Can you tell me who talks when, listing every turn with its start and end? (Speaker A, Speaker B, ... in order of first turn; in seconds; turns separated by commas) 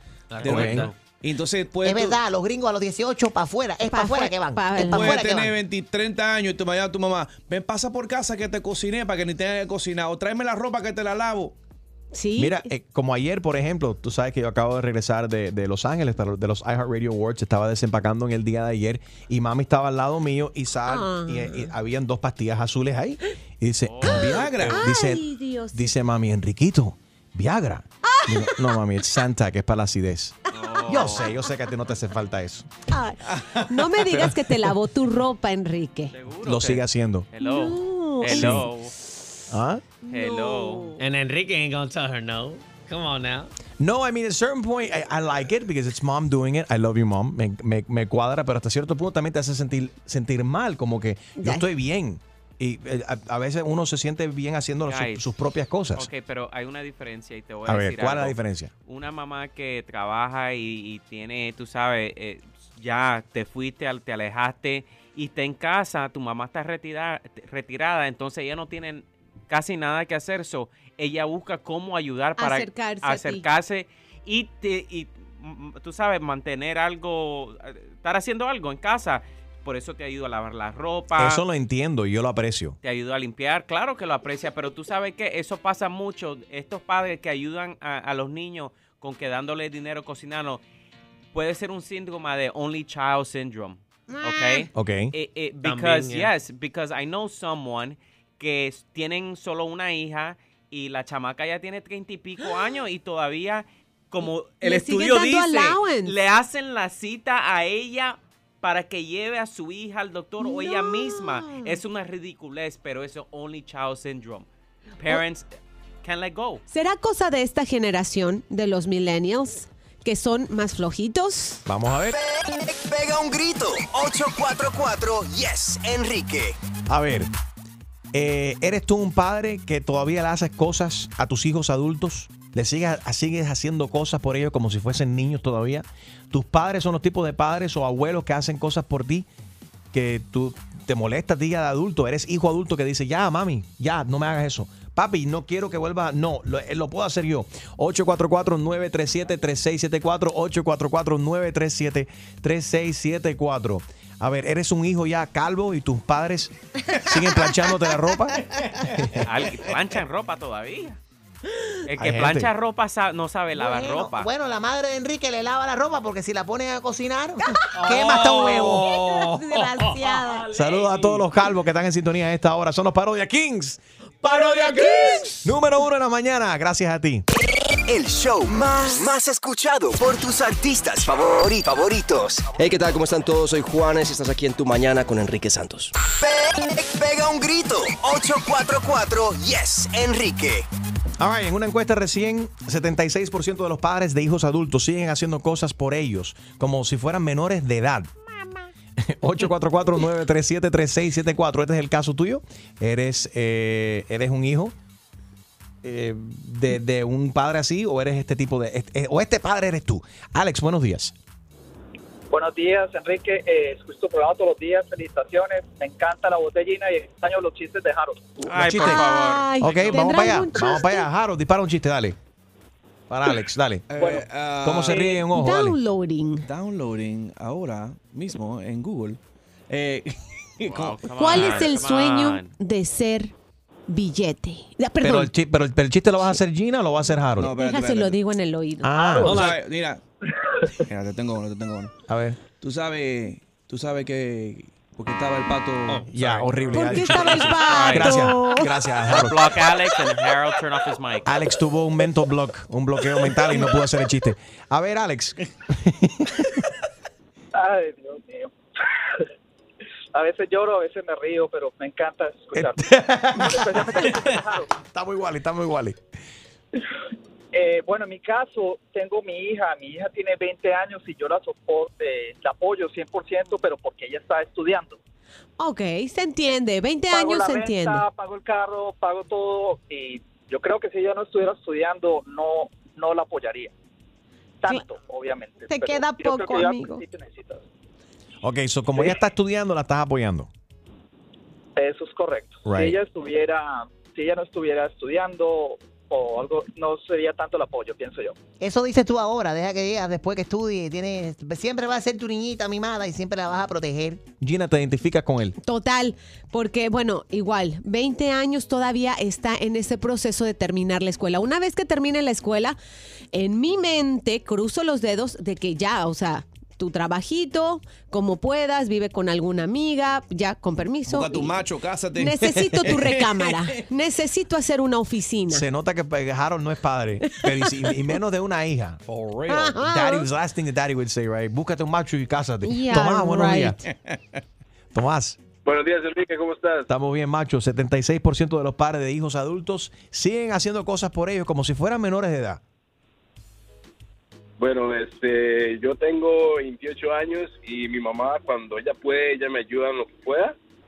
Speaker A: 0.3-0.9, Speaker B: 0.4-2.2, Speaker C: 0.4-0.9, Speaker D: 1.8-5.5, Speaker E: 3.9-5.3, Speaker B: 4.8-11.6, Speaker E: 12.1-12.7, Speaker C: 12.4-32.7, Speaker E: 20.9-21.7, Speaker F: 23.8-24.7, Speaker B: 24.1-24.8, Speaker E: 24.7-25.9, Speaker E: 28.0-28.6, Speaker F: 30.5-31.3, Speaker E: 32.9-36.1, Speaker B: 33.3-33.7, Speaker F: 36.1-38.9, Speaker C: 36.4-37.3, Speaker E: 37.4-38.6, Speaker C: 38.3-38.7, Speaker C: 39.5-39.8, Speaker E: 40.0-41.0, Speaker F: 40.1-40.9, Speaker A: 41.0-43.5, Speaker C: 43.8-56.1, Speaker E: 51.4-51.7, Speaker F: 54.9-55.3, Speaker F: 56.0-81.4, Speaker C: 57.7-58.7, Speaker E: 72.4-73.5, Speaker C: 81.2-82.8, Speaker F: 82.8-90.6, Speaker F: 91.3-114.5, Speaker E: 94.1-94.7, Speaker C: 94.8-95.1, Speaker A: 95.6-96.3, Speaker E: 104.6-106.2, Speaker E: 110.4-111.7, Speaker F: 115.0-115.5, Speaker F: 116.0-116.6, Speaker E: 116.7-121.6, Speaker C: 121.7-122.2, Speaker G: 122.2-126.6, Speaker C: 126.9-127.3, Speaker C: 128.1-139.3, Speaker C: 139.9-159.2, Speaker F: 159.2-161.0, Speaker F: 161.9-164.3, Speaker C: 162.0-162.5, Speaker D: 163.5-168.9, Speaker A: 167.8-170.1, Speaker E: 168.4-170.5, Speaker C: 170.5-177.3, Speaker E: 174.4-175.3, Speaker G: 177.9-182.5, Speaker H: 182.6-185.9, Speaker G: 186.2-190.7, Speaker C: 191.2-198.1, Speaker C: 199.0-204.8, Speaker C: 205.8-211.1, Speaker I: 212.3-218.4, Speaker F: 218.5-220.1, Speaker C: 218.5-219.1, Speaker E: 218.8-221.1, Speaker C: 219.6-222.2, Speaker C: 223.1-223.9, Speaker B: 223.9-225.3, Speaker I: 224.0-224.2, Speaker C: 224.6-225.8, Speaker E: 225.3-226.5, Speaker B: 226.4-229.2, Speaker B: 229.7-231.6, Speaker F: 230.6-232.5, Speaker E: 231.2-233.3, Speaker E: 233.9-235.3, Speaker C: 235.0-237.6, Speaker B: 237.4-238.2, Speaker E: 237.6-239.2, Speaker C: 238.8-239.5, Speaker B: 239.2-240.0, Speaker A: 239.3-239.5, Speaker B: 240.9-241.9, Speaker C: 242.1-242.4, Speaker B: 242.6-247.0, Speaker A: 245.9-246.2, Speaker C: 246.1-249.5, Speaker E: 246.7-248.7, Speaker F: 247.7-248.2, Speaker F: 249.1-251.4, Speaker C: 251.3-256.6, Speaker I: 257.5-259.3, Speaker I: 260.1-264.7, Speaker C: 262.5-264.1, Speaker C: 264.9-266.0, Speaker I: 267.5-275.0, Speaker E: 275.6-278.0, Speaker I: 277.1-283.7, Speaker I: 284.6-287.7, Speaker E: 285.7-287.0, Speaker C: 288.4-290.5, Speaker I: 291.8-298.4, Speaker C: 292.7-293.0, Speaker D: 298.6-304.2, Speaker C: 304.4-305.6, Speaker E: 305.6-312.8, Speaker E: 313.3-321.5, Speaker B: 321.1-323.8, Speaker E: 322.2-325.7, Speaker C: 325.5-329.0, Speaker B: 329.1-329.8, Speaker E: 329.5-330.3, Speaker C: 329.8-333.8, Speaker E: 332.6-333.8, Speaker B: 333.9-334.2, Speaker C: 334.9-335.4, Speaker J: 335.6-336.9, Speaker C: 336.9-342.6, Speaker J: 344.6-350.6